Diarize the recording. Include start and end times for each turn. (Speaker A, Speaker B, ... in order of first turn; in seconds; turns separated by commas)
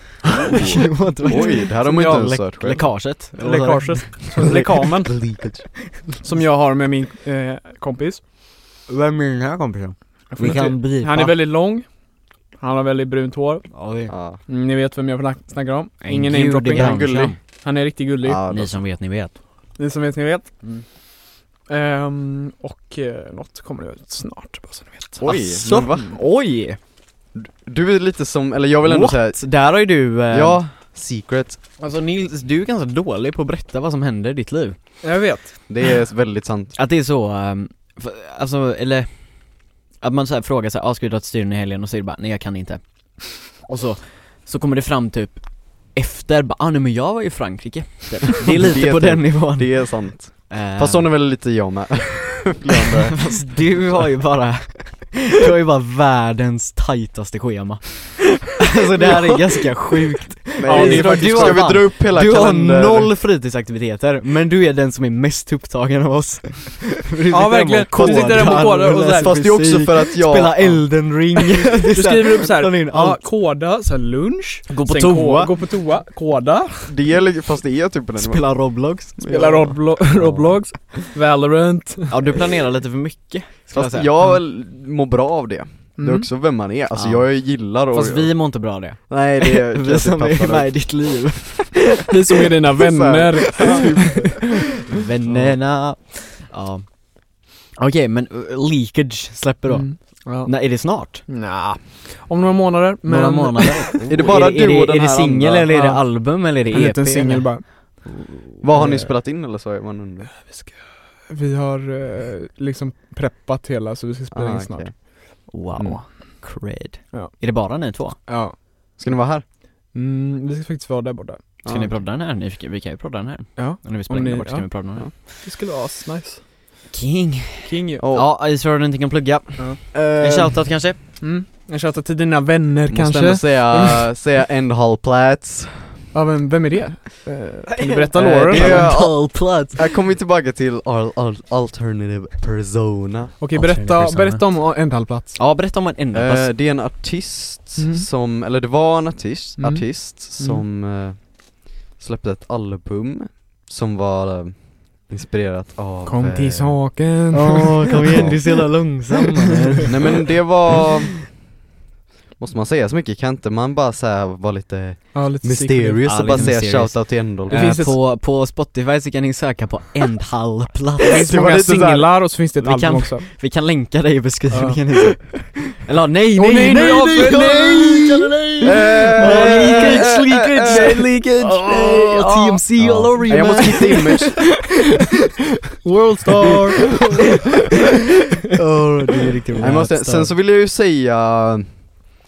Speaker A: 0.3-2.9, Speaker B: 0.5-2.4, Speaker C: 0.6-5.1, Speaker B: 3.3-5.4, Speaker A: 4.4-5.8, Speaker B: 6.2-8.2, Speaker C: 8.9-11.4, Speaker B: 10.3-11.9, Speaker B: 12.6-13.8, Speaker C: 13.7-14.1, Speaker A: 14.1-14.4, Speaker B: 14.4-18.4, Speaker C: 16.0-17.4, Speaker A: 16.7-17.4, Speaker A: 18.2-18.8, Speaker C: 18.5-19.3, Speaker B: 19.8-20.5, Speaker B: 21.6-25.2, Speaker A: 25.2-26.1, Speaker C: 25.2-26.8, Speaker A: 27.3-29.6, Speaker C: 28.8-30.6, Speaker A: 30.3-31.6, Speaker C: 31.8-34.8, Speaker B: 35.0-35.5, Speaker A: 35.7-36.8, Speaker C: 36.7-51.1, Speaker A: 48.4-54.0, Speaker C: 53.1-73.2, Speaker A: 60.5-63.1, Speaker B: 60.6-61.8, Speaker B: 67.3-69.3, Speaker A: 67.9-70.9, Speaker B: 71.9-76.9, Speaker C: 74.7-75.5, Speaker A: 76.8-80.5, Speaker C: 78.2-79.5, Speaker B: 79.3-82.2, Speaker C: 82.1-84.1, Speaker A: 83.7-90.8, Speaker B: 86.0-86.3, Speaker C: 86.9-92.1, Speaker B: 92.1-94.4, Speaker A: 92.8-94.3, Speaker C: 93.5-94.2, Speaker C: 94.9-101.3, Speaker A: 95.2-95.6, Speaker B: 99.7-104.1, Speaker C: 103.0-107.8, Speaker A: 104.1-105.7, Speaker B: 105.7-108.1, Speaker A: 108.6-110.3, Speaker B: 108.7-109.1, Speaker B: 110.4-115.0, Speaker A: 114.3-115.0, Speaker C: 115.5-118.2, Speaker B: 117.1-117.5, Speaker B: 118.3-118.6, Speaker A: 119.0-119.4, Speaker B: 119.9-121.4, Speaker A: 121.6-122.0, Speaker C: 121.7-125.1, Speaker B: 123.6-126.4, Speaker C: 126.9-131.0, Speaker B: 127.6-128.1, Speaker A: 128.0-128.3, Speaker A: 129.9-130.6, Speaker B: 131.0-134.0, Speaker A: 132.9-136.0, Speaker B: 136.1-139.0, Speaker C: 137.7-139.8, Speaker A: 138.1-143.3, Speaker B: 143.4-145.4, Speaker C: 143.5-144.8, Speaker C: 145.3-146.5, Speaker A: 146.1-156.9, Speaker B: 147.8-148.1, Speaker B: 149.6-150.6, Speaker B: 156.0-158.6, Speaker C: 157.3-160.8, Speaker A: 158.0-158.7, Speaker A: 159.8-161.4, Speaker A: 162.4-167.9, Speaker B: 165.1-166.5, Speaker C: 166.0-171.3, Speaker B: 167.5-168.0, Speaker B: 171.1-173.3, Speaker A: 171.2-172.1, Speaker C: 172.6-184.3, Speaker B: 174.5-175.3, Speaker B: 176.3-182.6, Speaker A: 178.6-181.9, Speaker A: 182.8-184.6, Speaker B: 183.2-184.2, Speaker C: 185.8-187.3, Speaker C: 188.5-190.3, Speaker A: 189.6-191.8